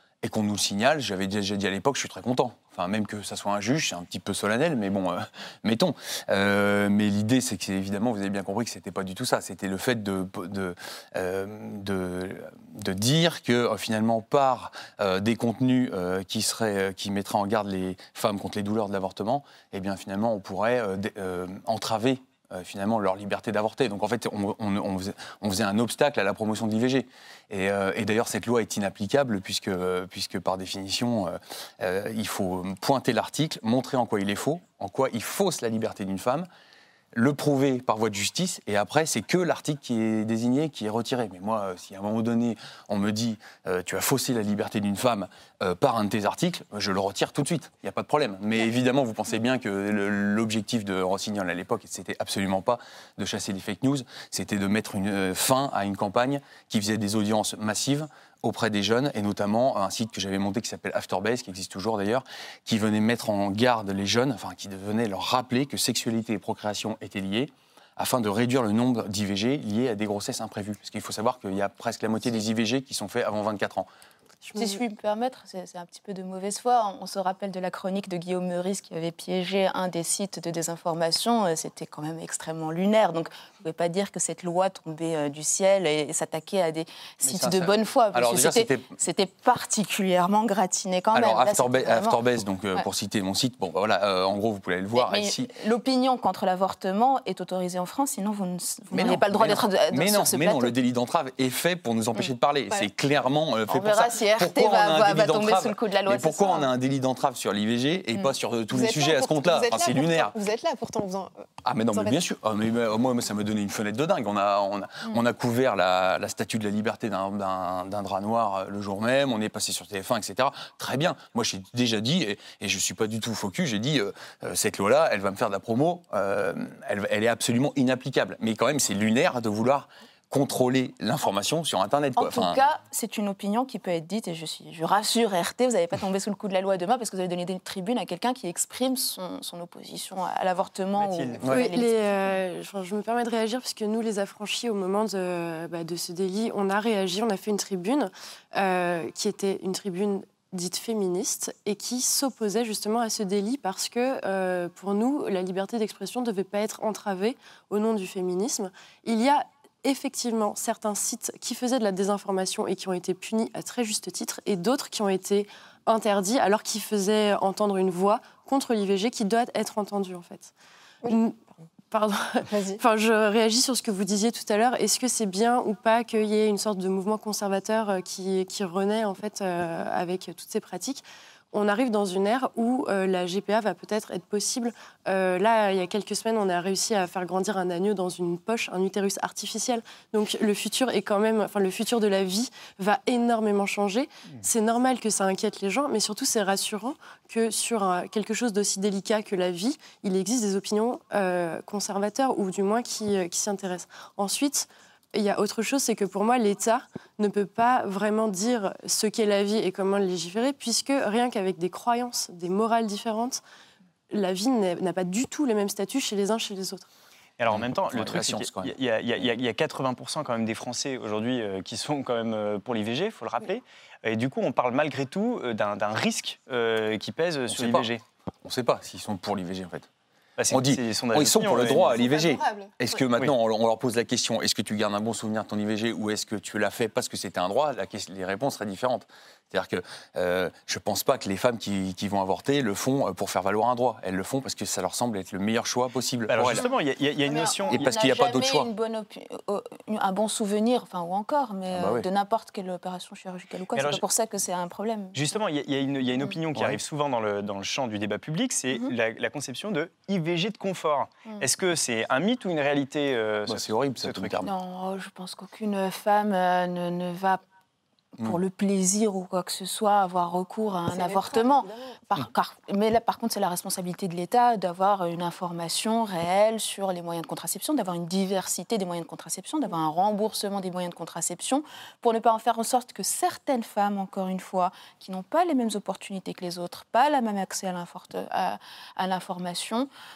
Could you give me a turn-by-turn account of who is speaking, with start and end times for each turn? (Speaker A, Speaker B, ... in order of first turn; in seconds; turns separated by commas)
Speaker A: 0.2-36.5, Speaker A: 37.1-73.9, Speaker B: 74.4-74.8, Speaker C: 74.5-92.2, Speaker A: 87.2-88.9, Speaker A: 91.1-95.5, Speaker C: 94.9-100.7, Speaker A: 98.9-110.3, Speaker C: 103.7-106.7, Speaker D: 108.7-112.2, Speaker A: 111.6-132.6, Speaker C: 132.2-142.2, Speaker E: 141.0-141.4, Speaker B: 141.4-170.5, Speaker A: 141.4-141.7, Speaker D: 171.0-171.4, Speaker B: 171.1-171.3, Speaker B: 171.9-213.4, Speaker D: 172.5-172.8, Speaker B: 214.1-216.9, Speaker E: 217.4-228.0, Speaker A: 217.5-218.7, Speaker A: 227.5-227.9, Speaker A: 228.4-229.9, Speaker E: 230.4-231.9, Speaker A: 230.5-246.6, Speaker D: 231.6-233.0, Speaker E: 246.3-247.8, Speaker C: 247.2-255.2, Speaker A: 247.7-248.7, Speaker A: 251.7-252.1, Speaker E: 253.7-254.0, Speaker E: 255.1-264.4, Speaker A: 263.5-264.5, Speaker C: 264.4-267.4, Speaker C: 268.2-289.9, Speaker D: 270.9-271.9